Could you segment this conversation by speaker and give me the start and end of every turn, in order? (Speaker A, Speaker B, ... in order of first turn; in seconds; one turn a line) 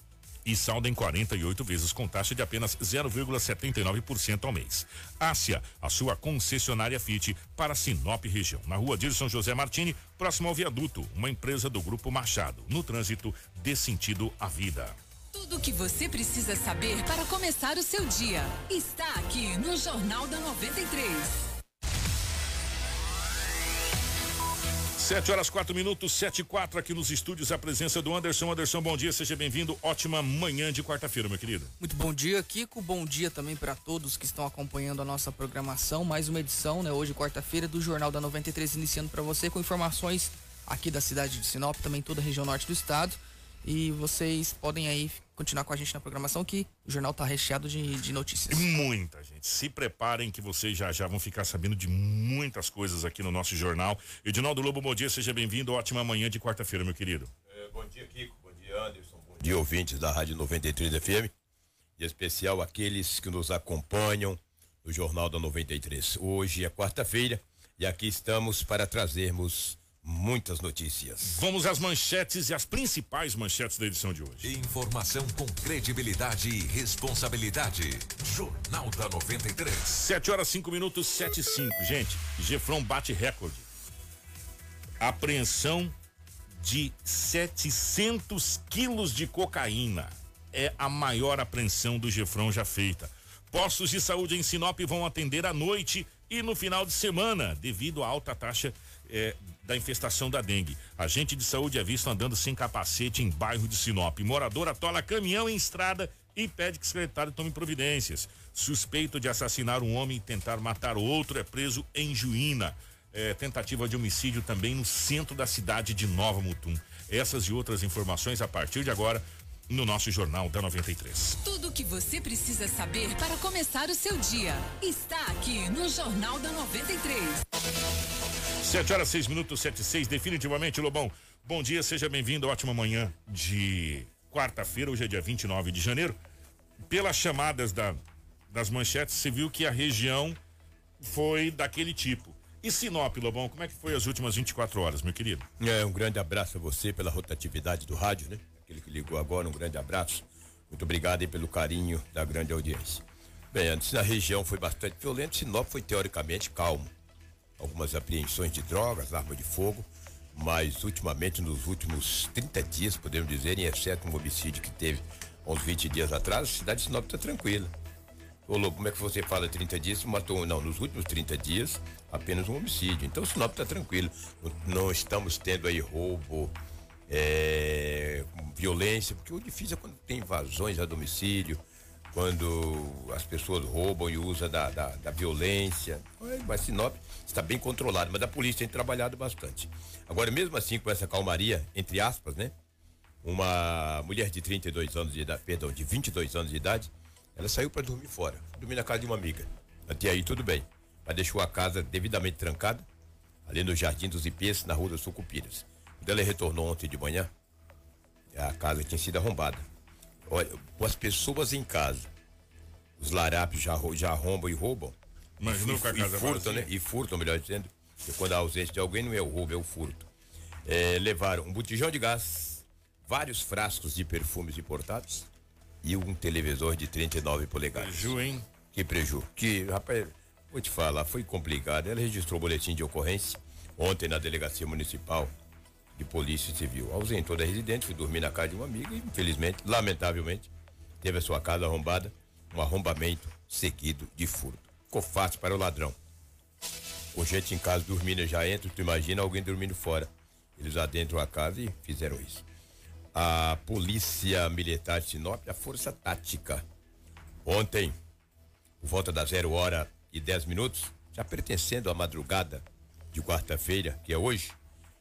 Speaker A: 0.4-15.0
Speaker B: 15.3-21.4
Speaker A: 25.0-31.7
Speaker C: 31.8-48.7
Speaker A: 48.5-57.3
Speaker D: 57.5-61.3
Speaker D: 62.0-71.4
Speaker A: 71.2-74.5
Speaker E: 74.4-80.0
Speaker A: 79.8-83.7
Speaker A: 85.0-85.9
Speaker A: 86.6-121.4
Speaker B: 121.4-127.4
Speaker A: 128.6-136.2
Speaker A: 136.9-140.4
Speaker A: 141.0-145.5
Speaker D: 145.6-156.9
Speaker D: 157.6-167.7
Speaker D: 168.4-176.6
Speaker D: 177.1-192.5
Speaker D: 193.2-202.8
Speaker D: 203.4-207.3
Speaker D: 208.3-209.7
Speaker D: 210.3-212.1
Speaker D: 213.0-220.1
Speaker A: 215.4-216.7
Speaker D: 220.6-225.3
Speaker D: 225.8-228.2
Speaker A: 227.7-228.5
Speaker D: 228.7-235.3
Speaker D: 235.9-240.5
Speaker D: 241.0-246.0
Speaker D: 247.1-252.4
Speaker D: 253.1-256.6
Speaker D: 257.4-258.0
Speaker D: 258.8-264.6